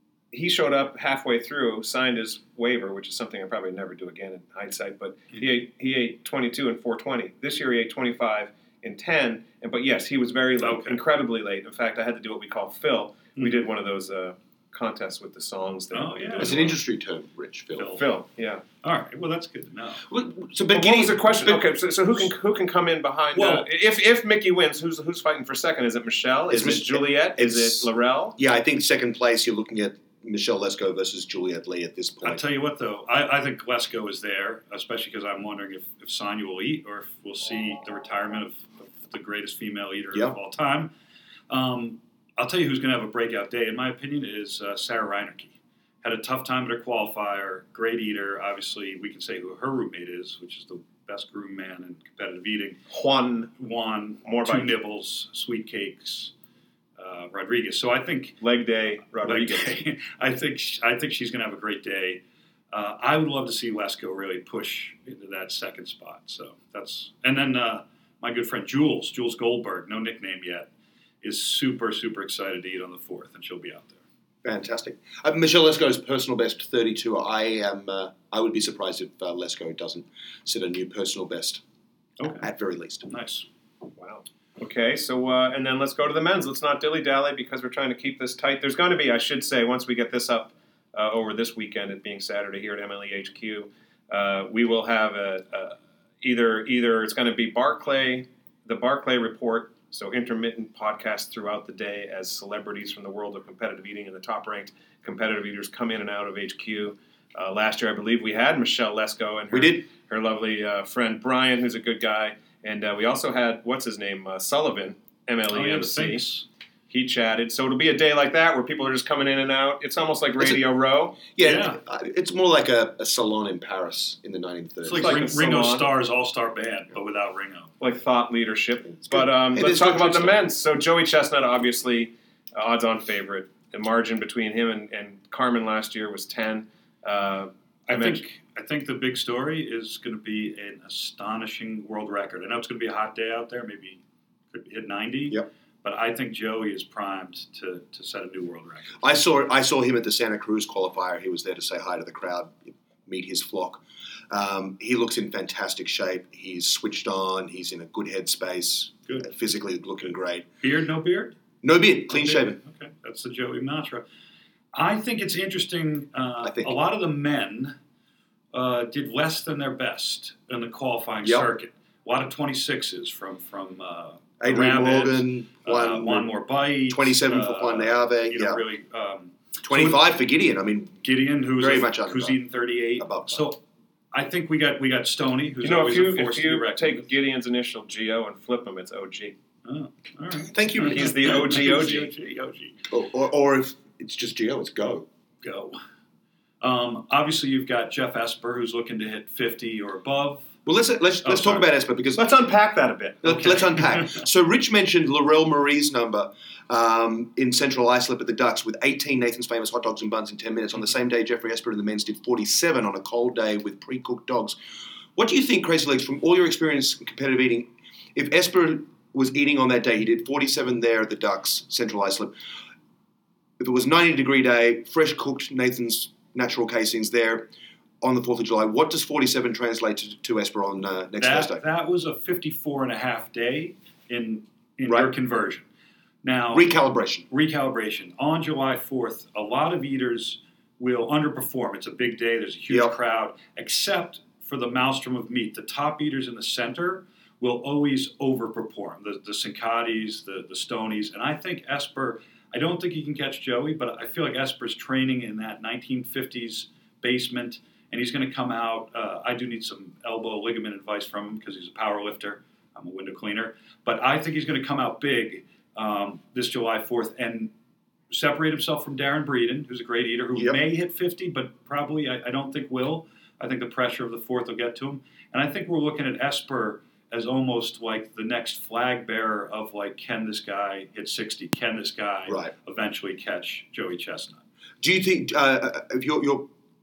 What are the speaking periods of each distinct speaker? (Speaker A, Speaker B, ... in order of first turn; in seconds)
Speaker A: 0.3-16.6, 17.9-18.6, 20.7-28.4, 52.9-53.5, 54.2-54.7, 58.4-59.8, 84.0-116.2, 116.9-121.2, 124.9-125.9, 127.8-138.2, 185.6-189.3, 190.8-192.1, 202.2-203.4
Speaker B: 10.6-11.0, 15.9-16.8, 17.8-18.1, 18.8-20.0, 23.3-23.7, 32.2-40.9, 41.5-52.8, 53.6-56.3, 57.0-58.4, 59.1-62.2, 62.7-70.7, 71.2-74.0, 82.2-82.5, 83.0-83.5, 115.5-116.5, 121.4-121.8, 124.8-127.7, 137.9-144.0, 144.5-149.0, 160.6-161.4, 162.1-164.0, 164.7-167.8, 168.5-180.0, 181.0-183.6, 184.1-187.1, 189.6-192.8, 195.4-195.8, 196.6-200.5, 201.2-201.7, 203.2-204.2, 231.2-235.7, 236.2-236.7, 237.3-267.5, 268.1-284.4
Speaker C: 16.4-18.0, 20.1-21.6, 26.5-32.4, 74.4-81.6, 82.2-83.1, 109.5-109.9, 120.4-120.6, 121.2-125.2, 129.1-130.5, 149.0-160.4, 161.6-162.6, 166.4-166.8, 171.2-171.5, 174.4-176.3, 176.9-178.6, 179.6-183.5, 190.5-191.1, 192.9-195.1, 200.7-202.2, 203.2-214.6, 215.2-222.3, 223.6-227.5, 228.0-231.6, 236.5-237.2, 242.7-242.9, 282.3-282.5, 284.8-286.5